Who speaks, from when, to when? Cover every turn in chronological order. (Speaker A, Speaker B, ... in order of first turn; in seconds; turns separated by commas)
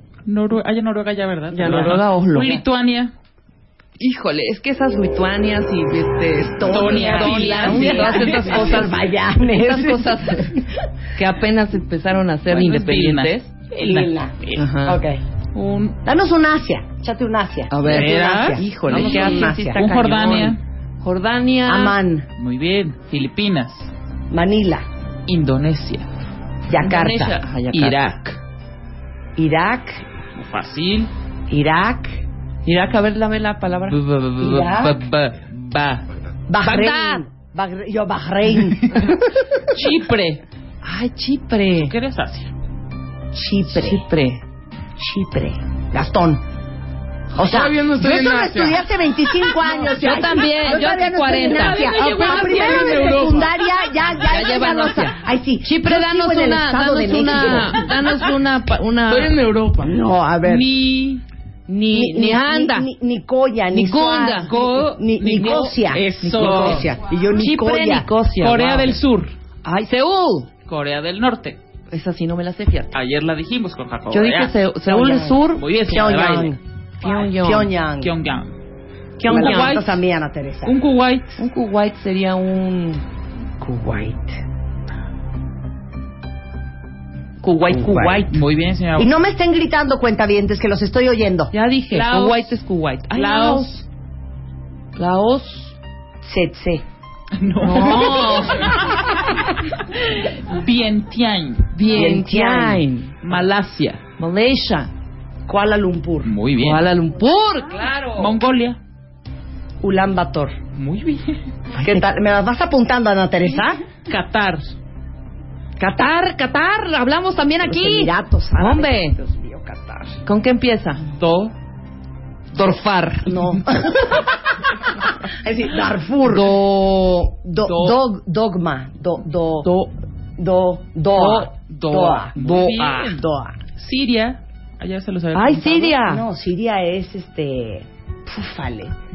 Speaker A: 0.2-3.1, Speaker B: 1.5-2.6, Speaker B: 4.0-10.5, Speaker C: 6.3-10.7, Speaker A: 6.7-8.1, Speaker D: 7.7-8.8, Speaker B: 11.2-13.5, Speaker A: 12.5-14.7, Speaker C: 13.7-15.2, Speaker B: 14.6-15.0, Speaker A: 15.5-16.0, Speaker C: 16.0-19.8, Speaker B: 17.7-22.0, Speaker A: 17.8-20.6, Speaker C: 21.7-22.3, Speaker A: 22.4-23.9, Speaker C: 24.3-24.8, Speaker A: 25.3-26.1, Speaker C: 26.7-27.4, Speaker B: 26.8-28.0, Speaker A: 27.7-28.4, Speaker C: 29.4-30.0, Speaker A: 30.4-31.1, Speaker C: 31.5-32.2, Speaker B: 32.6-34.0, Speaker A: 33.9-36.0, Speaker C: 34.4-35.0, Speaker C: 36.5-39.6, Speaker B: 36.6-37.2, Speaker A: 39.7-40.4, Speaker B: 40.8-41.9, Speaker A: 41.8-42.5, Speaker C: 43.3-44.0, Speaker B: 43.7-44.4, Speaker C: 45.0-46.4, Speaker C: 47.3-57.9, Speaker D: 47.4-48.8, Speaker B: 49.9-51.8, Speaker A: 51.3-53.4, Speaker D: 52.0-53.5, Speaker B: 54.2-59.4, Speaker D: 59.1-60.0, Speaker C: 59.8-60.7, Speaker B: 60.5-62.9, Speaker C: 61.9-68.1, Speaker B: 63.7-64.7, Speaker A: 64.5-66.9, Speaker B: 66.2-69.0, Speaker A: 68.4-69.3, Speaker B: 69.6-70.5, Speaker A: 70.7-71.6, Speaker B: 71.9-72.9, Speaker A: 72.9-74.6, Speaker B: 74.1-75.7, Speaker C: 74.8-76.6, Speaker A: 75.5-76.6, Speaker B: 77.0-77.7, Speaker C: 77.2-78.1, Speaker A: 78.0-78.5, Speaker C: 79.2-80.8, Speaker B: 79.2-79.8, Speaker A: 79.3-80.0, Speaker A: 80.6-81.4, Speaker B: 81.4-83.0, Speaker C: 83.6-84.4, Speaker B: 87.4-88.4, Speaker C: 87.7-88.3, Speaker A: 88.3-89.1, Speaker C: 89.0-91.5, Speaker B: 91.5-93.8, Speaker A: 91.9-92.5, Speaker A: 93.1-93.8, Speaker B: 95.0-95.8, Speaker C: 96.2-96.8, Speaker A: 97.4-101.8, Speaker B: 97.6-98.7, Speaker B: 101.7-103.2, Speaker C: 101.9-102.8, Speaker A: 103.2-104.0, Speaker B: 104.2-104.9, Speaker C: 105.5-106.3, Speaker A: 106.2-106.8, Speaker B: 106.6-108.3, Speaker A: 108.1-108.8, Speaker C: 109.8-110.5, Speaker A: 110.8-111.4, Speaker C: 111.8-113.8, Speaker A: 114.1-114.7, Speaker B: 115.8-119.2, Speaker C: 117.6-120.2, Speaker B: 120.2-121.0, Speaker A: 121.1-121.5, Speaker B: 122.5-123.3, Speaker C: 123.2-124.6, Speaker C: 125.2-126.5, Speaker B: 126.2-127.9, Speaker C: 127.4-129.7, Speaker C: 130.4-132.3, Speaker B: 131.2-131.5, Speaker A: 131.3-133.2, Speaker B: 132.3-133.2, Speaker C: 133.1-133.6, Speaker A: 133.8-136.0, Speaker B: 135.3-136.2, Speaker C: 136.0-138.9